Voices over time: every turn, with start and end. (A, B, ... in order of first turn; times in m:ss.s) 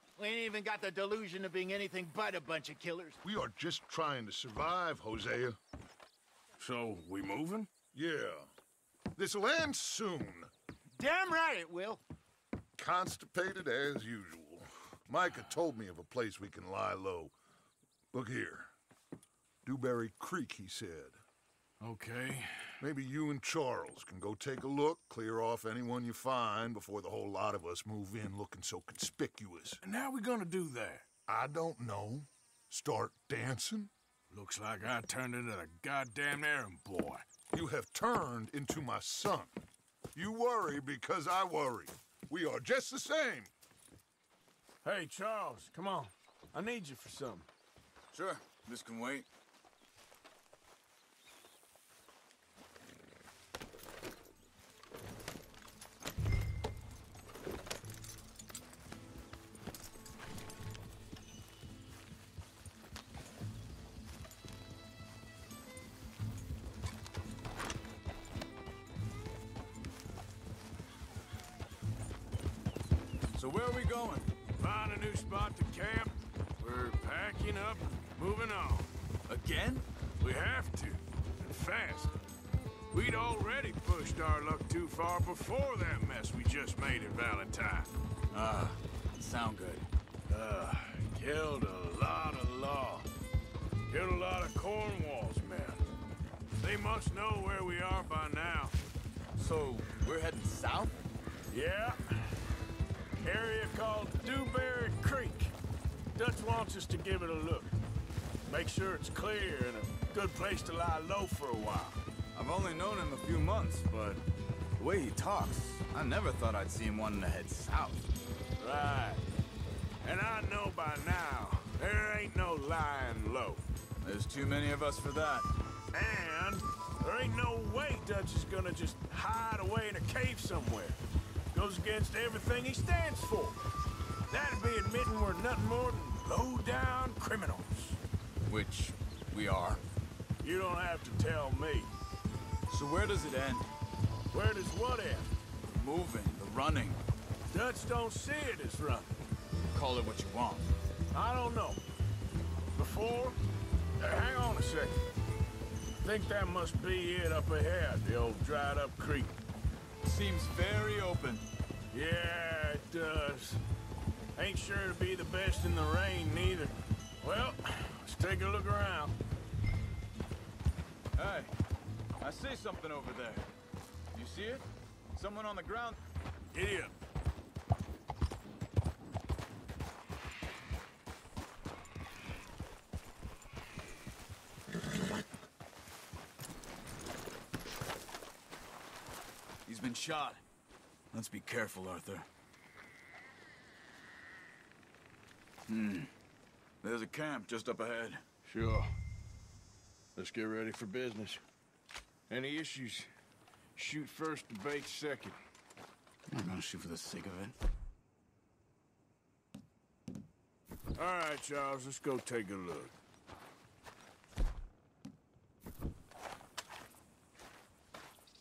0:00.2-0:03.2 A
0:03.2-0:05.6 B
0:06.6-0:07.7 C
0:07.9-0:08.5 B
0:09.2-0:10.5 B
0:11.0-0:12.0 A
0:12.8-0:17.3 B
0:18.1-0:18.7 B
0:19.6-0:21.2 B
0:21.8-0:22.8 C
0:22.8-0:29.8 B
0:29.8-0:31.0 C
0:31.3-0:33.9 B
0:34.3-0:37.2 C
0:37.5-0:39.5 B
0:40.1-0:43.5 B
0:44.8-0:47.5 C
0:48.1-0:49.3 D
1:13.3-1:14.3 D
1:14.6-1:18.9 C
1:19.3-1:19.8 D
1:20.2-1:22.1 C
1:22.9-1:27.9 C
1:28.3-1:29.8 D
1:30.3-1:33.1 C
1:33.9-1:35.8 C
1:36.6-1:38.8 C
1:39.4-1:41.0 D
1:41.5-1:42.4 C
1:43.2-1:45.5 C
1:46.2-1:47.7 C
1:48.5-1:52.0 C
1:52.3-1:54.2 D
1:54.8-1:58.1 D
1:58.6-1:59.2 C
2:00.0-2:03.6 C
2:04.0-2:05.5 D
2:05.9-2:11.0 C
2:11.5-2:13.6 C
2:14.3-2:18.0 C
2:18.5-2:19.8 D
2:20.4-2:21.9 C
2:22.7-2:23.6 D
2:24.3-2:25.3 C
2:25.7-2:27.0 D
2:27.5-2:29.2 C
2:29.7-2:30.7 D
2:31.1-2:31.8 C
2:32.7-2:33.4 C
2:34.0-2:35.0 C
2:36.0-2:39.3 C
2:40.0-2:41.4 D
2:41.9-2:43.6 C
2:44.4-2:49.2 C
2:51.1-2:51.5 D
2:52.2-2:53.4 D
2:54.1-2:54.6 D
2:55.2-2:56.0 D
2:56.5-2:56.9 C
3:09.7-3:10.4 D
3:11.1-3:12.3 D
3:15.7-3:16.1 D
3:16.8-3:18.2 D
3:18.4-3:18.9 C
3:20.2-3:21.4 C
3:22.3-3:23.1 C
3:23.8-3:25.4 C
3:26.3-3:27.5 D
3:31.0-3:32.9 C